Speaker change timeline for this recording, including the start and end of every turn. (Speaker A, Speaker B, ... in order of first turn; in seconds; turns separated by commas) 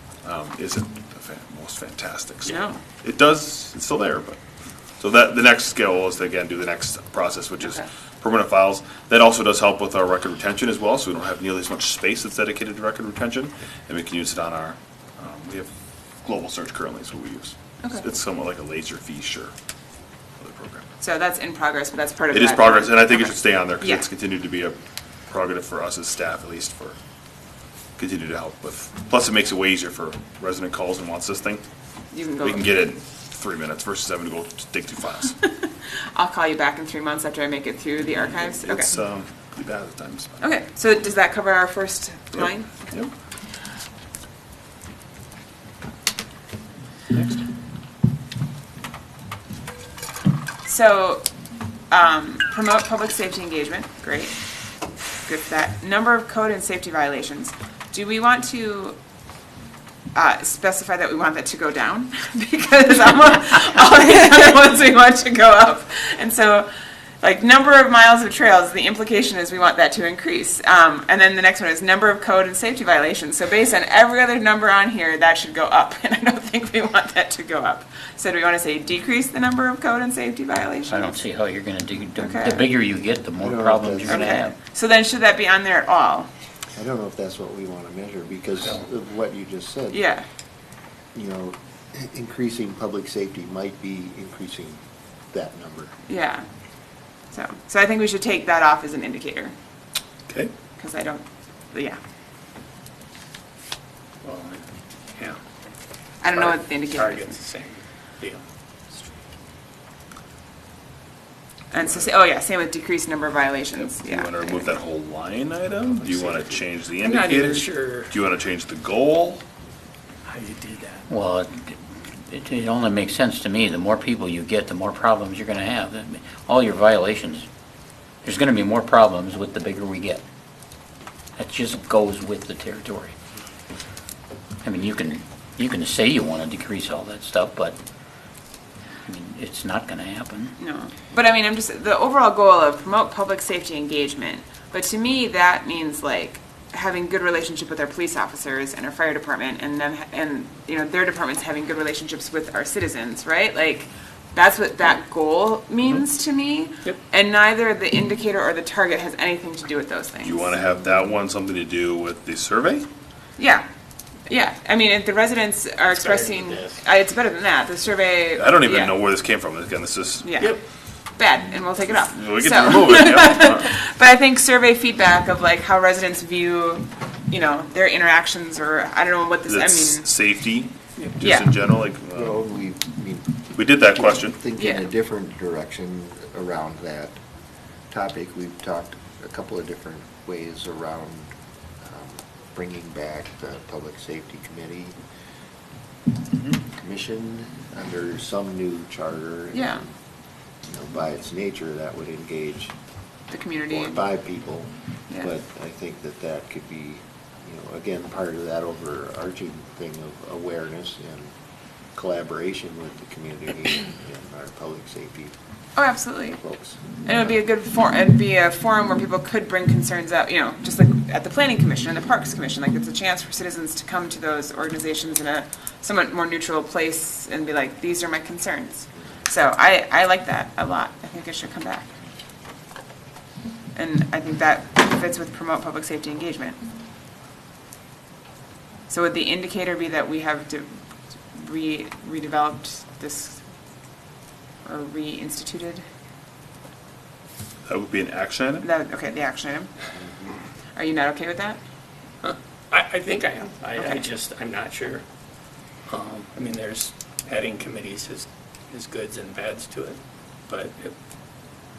Speaker A: 0.2-4.4, Speaker B: 2.5-2.8, Speaker A: 5.0-19.5, Speaker A: 20.4-20.9, Speaker B: 21.0-24.1, Speaker A: 22.3-26.9, Speaker A: 28.0-31.6, Speaker B: 32.1-32.7, Speaker A: 32.4-35.4, Speaker B: 35.4-38.9, Speaker A: 38.3-40.4, Speaker B: 40.4-43.0, Speaker A: 42.3-43.1, Speaker A: 47.1-47.4, Speaker B: 50.6-51.3, Speaker B: 51.9-54.3, Speaker B: 55.2-59.0, Speaker B: 60.1-66.7, Speaker B: 67.2-81.1, Speaker C: 80.8-84.5, Speaker B: 82.2-82.6, Speaker D: 83.4-84.3, Speaker B: 84.0-86.3, Speaker D: 86.8-90.0, Speaker B: 89.9-90.2, Speaker D: 91.1-94.8, Speaker D: 95.3-95.9, Speaker B: 96.1-96.5, Speaker B: 97.3-99.5, Speaker E: 100.3-100.5, Speaker B: 100.8-102.0, Speaker E: 104.2-105.4, Speaker B: 106.2-107.4, Speaker E: 106.3-109.2, Speaker B: 111.7-114.8, Speaker A: 111.8-112.1, Speaker A: 114.0-119.4, Speaker E: 115.8-118.1, Speaker E: 120.2-121.0, Speaker C: 121.1-121.7, Speaker C: 122.3-127.5, Speaker C: 128.2-130.2, Speaker C: 131.4-133.1, Speaker C: 134.6-137.8, Speaker C: 139.1-140.5, Speaker B: 140.6-160.5, Speaker A: 160.2-162.9, Speaker B: 163.4-163.6, Speaker B: 164.3-169.0, Speaker E: 165.9-166.8, Speaker A: 168.3-170.3, Speaker B: 170.2-170.6, Speaker B: 171.2-180.4, Speaker A: 171.9-173.7, Speaker A: 179.5-182.4, Speaker B: 181.0-181.5, Speaker D: 182.1-187.2, Speaker A: 183.5-184.4, Speaker B: 184.6-184.9, Speaker D: 187.9-194.9, Speaker D: 196.6-199.9, Speaker B: 199.5-199.8, Speaker D: 200.7-202.7, Speaker B: 203.3-204.0, Speaker D: 203.7-211.3, Speaker D: 211.9-215.3, Speaker B: 215.8-216.4, Speaker D: 216.3-217.4, Speaker B: 217.0-231.9, Speaker B: 233.8-236.6, Speaker B: 238.9-240.7, Speaker B: 241.3-243.4, Speaker B: 244.6-245.8, Speaker A: 247.7-248.7, Speaker B: 248.6-249.7, Speaker D: 250.0-250.4, Speaker B: 250.8-251.6, Speaker E: 252.2-255.0, Speaker B: 253.8-254.0, Speaker E: 255.9-260.9